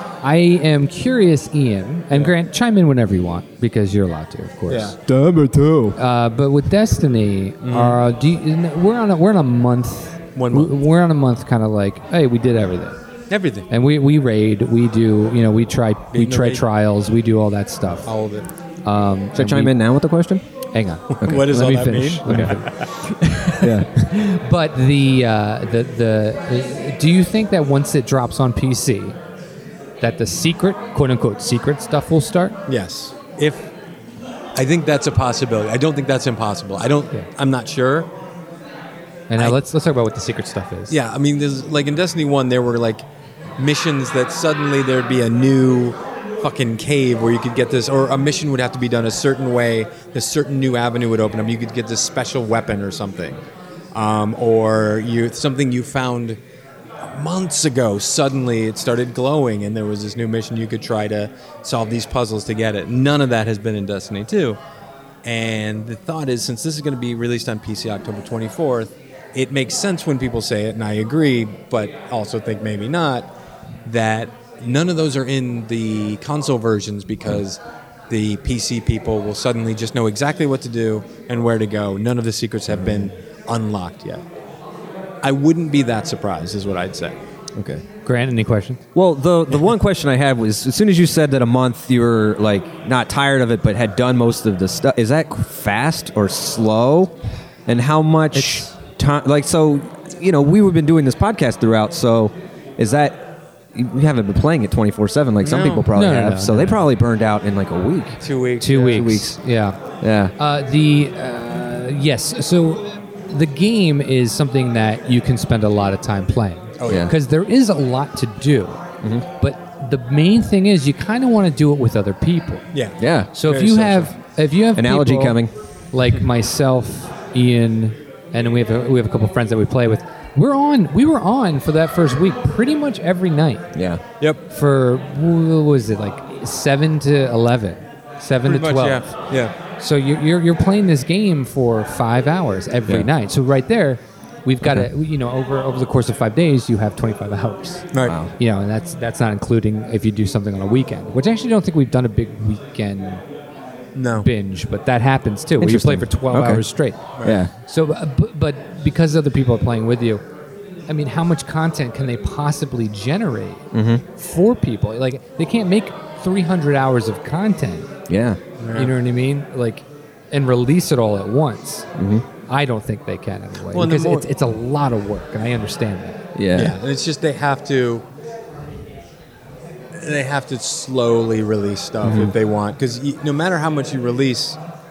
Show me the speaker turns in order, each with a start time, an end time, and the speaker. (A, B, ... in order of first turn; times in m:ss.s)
0:00.2-0:05.0 A
0:04.7-0:05.0 B
0:05.0-0:06.0 C
0:06.0-0:13.0 A
0:07.6-0:08.0 B
0:10.4-0:10.7 B
0:13.3-0:13.7 B
0:13.7-0:18.0 A
0:16.1-0:16.6 B
0:18.0-0:18.5 B
0:18.8-0:19.8 A
0:19.3-0:20.4 C
0:20.7-0:29.2 A
0:21.2-0:22.9 B
0:21.2-0:22.5 C
0:23.6-0:23.9 C
0:30.0-0:32.6 A
0:32.7-0:33.7 B
0:34.6-0:38.1 B
0:39.3-0:40.9 A
0:40.9-0:43.0 B
0:43.6-0:53.4 B
0:53.9-0:56.4 B
0:57.0-1:04.6 B
1:05.2-1:13.3 B
1:13.8-1:24.2 B
1:25.2-1:27.2 B
1:27.6-1:27.8 C
1:28.0-1:28.8 A
1:28.9-1:37.1 C
1:37.7-1:48.2 C
1:38.3-1:38.7 A
1:45.4-1:45.9 B
1:45.9-1:46.8 A
1:48.2-1:49.1 B
1:48.6-1:49.8 A
1:48.9-1:49.4 C
1:50.0-1:50.3 C
1:50.4-1:58.8 A
1:56.8-1:57.1 B
1:56.9-1:57.1 C
1:59.4-2:02.6 A
2:02.7-2:04.1 B
2:03.0-2:03.3 C
2:03.3-2:13.7 A
2:04.7-2:05.5 C
2:13.7-2:14.0 C
2:14.5-2:19.0 A
2:18.4-2:19.5 B
2:19.8-2:27.8 A
2:24.6-2:24.9 C
2:28.0-2:28.3 C
2:28.4-2:33.2 A
2:33.9-2:34.3 B
2:34.1-2:37.0 A
2:35.6-2:36.6 C
2:37.2-2:37.4 B
2:37.2-2:37.5 C
2:37.6-2:40.2 A
2:40.9-2:43.6 A
2:43.7-2:44.0 C
2:44.1-2:47.9 A
2:48.1-2:48.4 C
2:48.6-2:48.9 B
2:48.7-2:51.9 A
2:52.0-2:52.2 C
2:52.5-2:56.2 A
2:53.7-2:54.3 B
2:56.3-2:56.8 C
2:56.5-2:58.0 B
3:00.0-3:04.6 B
3:02.0-3:02.3 C